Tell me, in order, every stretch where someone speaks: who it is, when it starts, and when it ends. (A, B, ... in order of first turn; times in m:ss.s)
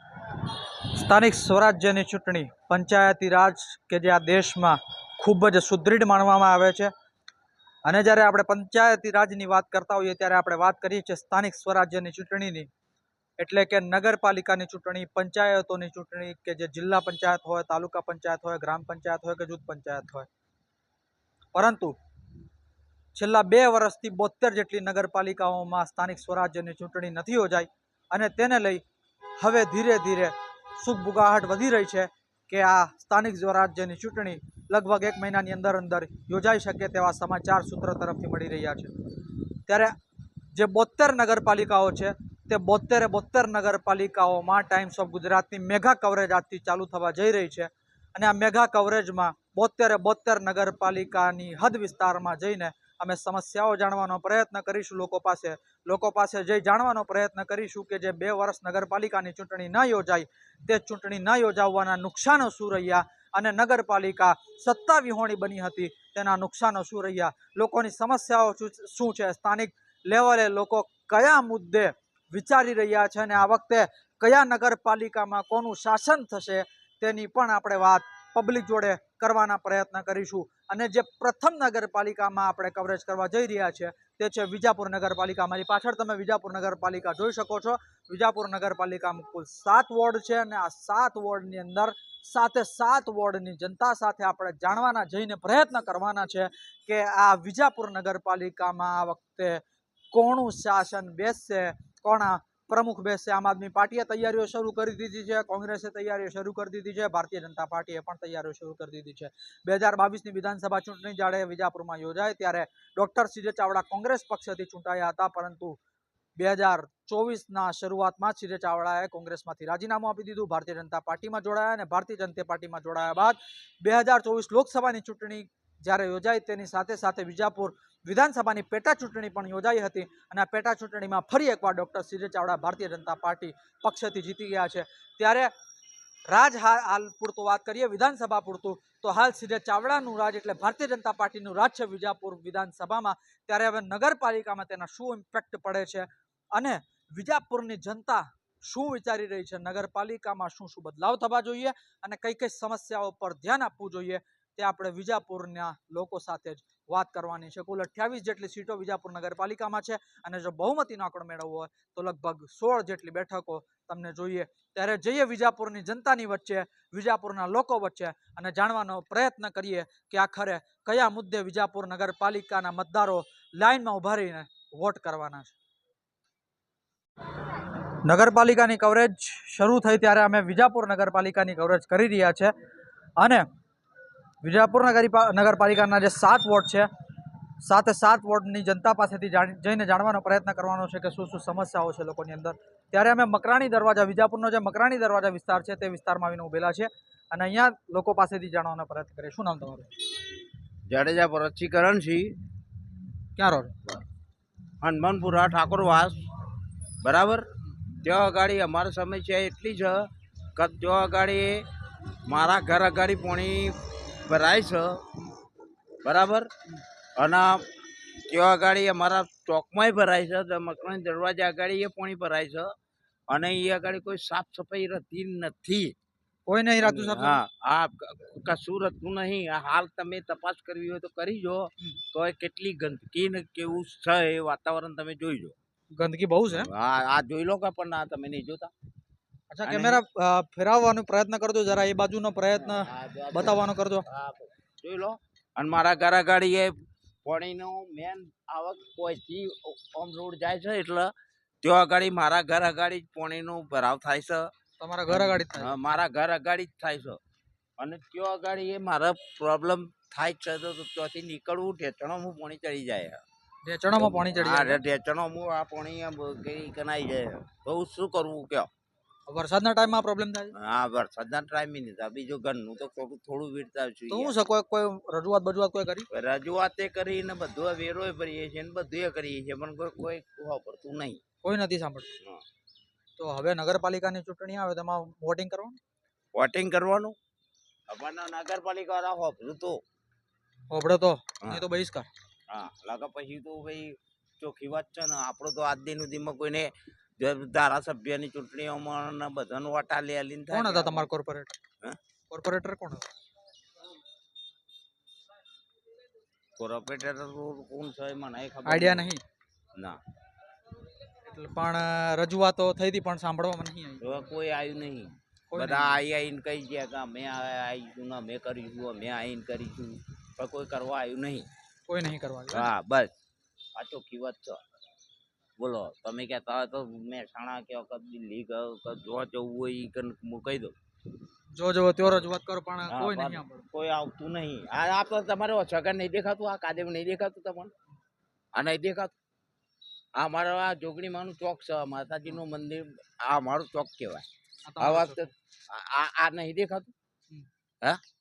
0:01.0-0:06.9 A
0:07.8-0:12.7 A
0:13.4-0:20.3 A
0:21.5-0:21.9 A
0:23.1-0:28.8 A
0:29.4-0:38.9 A
0:39.7-0:39.9 A
0:40.5-1:55.8 A
1:56.4-2:15.5 A
2:16.3-2:55.5 A
2:58.0-3:02.5 A
3:03.2-3:03.4 A
3:04.4-3:06.9 A
3:07.6-3:19.9 A
3:20.9-3:22.3 B
3:23.4-3:23.7 A
3:24.8-3:26.2 B
3:27.0-3:27.4 B
3:28.0-3:30.0 B
3:30.6-3:31.6 B
3:32.3-3:35.2 B
3:36.0-3:36.5 B
3:37.2-3:37.6 B
3:38.3-3:42.7 B
3:43.3-3:46.0 B
3:46.5-3:47.4 A
3:46.8-3:55.5 B
3:55.9-3:56.7 A
3:56.6-3:58.7 B
3:59.5-4:04.0 A
3:59.6-4:00.0 B
4:02.6-4:06.7 B
4:07.2-4:14.5 B
4:14.8-4:15.8 A
4:15.1-4:17.2 B
4:17.8-4:23.2 B
4:23.6-4:24.8 A
4:24.0-4:28.7 B
4:29.3-4:30.5 A
4:30.6-4:34.3 B
4:34.1-4:36.1 A
4:36.1-4:41.2 B
4:41.4-4:42.1 A
4:43.2-4:45.8 A
4:46.3-4:47.2 B
4:47.9-4:49.8 B
4:50.7-4:52.1 A
4:52.5-5:01.1 B
5:00.5-5:01.6 A
5:02.3-5:03.1 A
5:06.6-5:09.1 B
5:08.6-5:09.2 A
5:11.2-5:14.2 A
5:14.0-5:21.5 B
5:15.5-5:16.0 A
5:21.9-5:22.7 A
5:22.5-5:23.1 B
5:23.8-5:24.6 B
5:25.6-5:30.7 B
5:31.5-5:33.6 A
5:32.9-5:37.7 B
5:38.5-5:39.1 B
5:40.2-5:44.2 B
5:44.6-5:45.3 A
5:44.8-5:46.9 B